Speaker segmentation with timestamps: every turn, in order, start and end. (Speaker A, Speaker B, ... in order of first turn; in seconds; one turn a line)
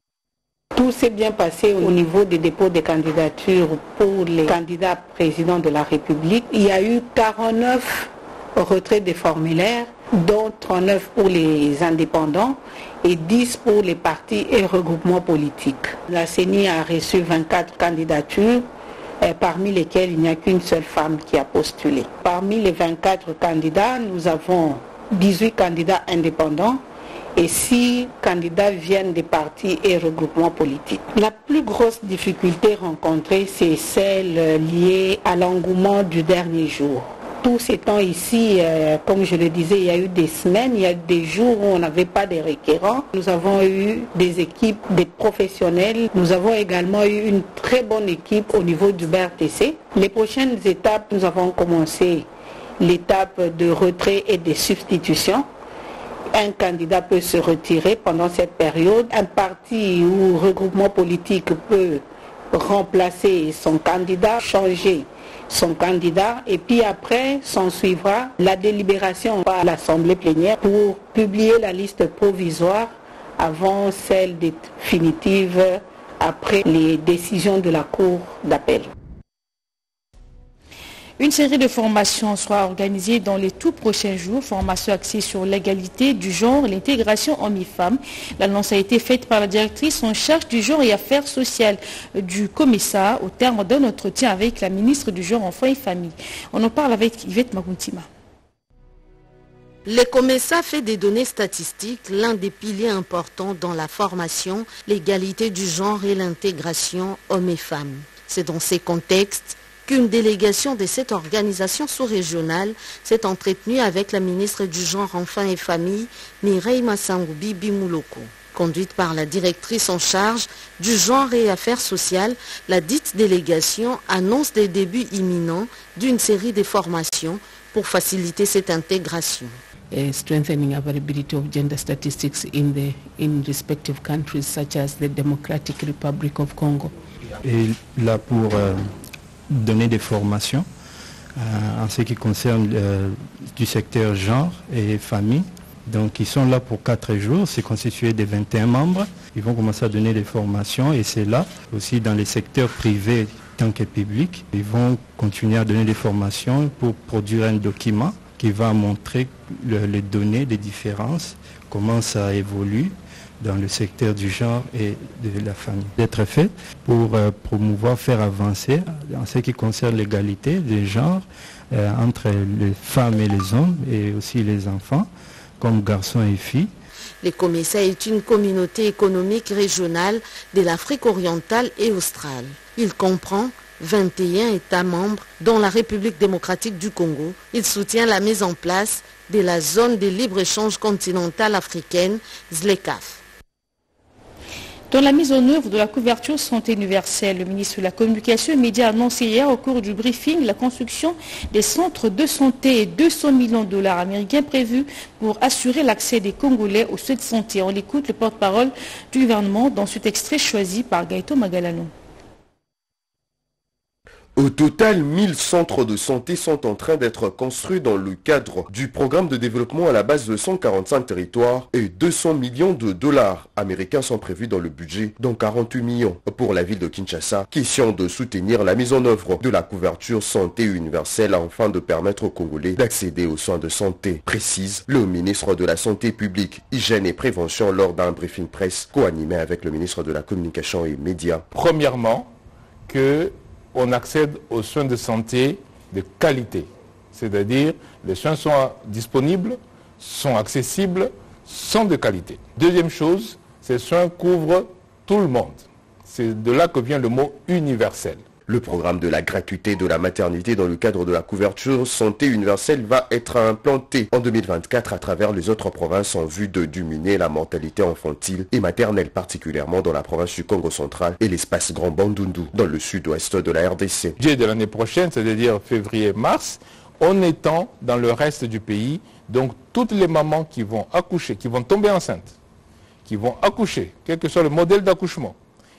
Speaker A: 0.8-18.7
Speaker A: 19.2-26.8
Speaker A: 27.4-52.3
Speaker A: 52.8-55.5
Speaker A: 56.3-78.9
Speaker B: 81.2-98.1
Speaker C: 99.9-129.6
Speaker D: 129.9-136.9
Speaker E: 137.4-138.9
Speaker E: 139.5-140.7
Speaker E: 141.4-175.1
Speaker E: 175.6-176.7
Speaker C: 177.2-193.2
Speaker B: 194.9-211.9
Speaker F: 214.4-241.4
Speaker G: 241.5-242.3
Speaker G: 242.9-258.3
Speaker F: 258.5-274.2
Speaker G: 274.2-282.3
Speaker G: 283.1-285.4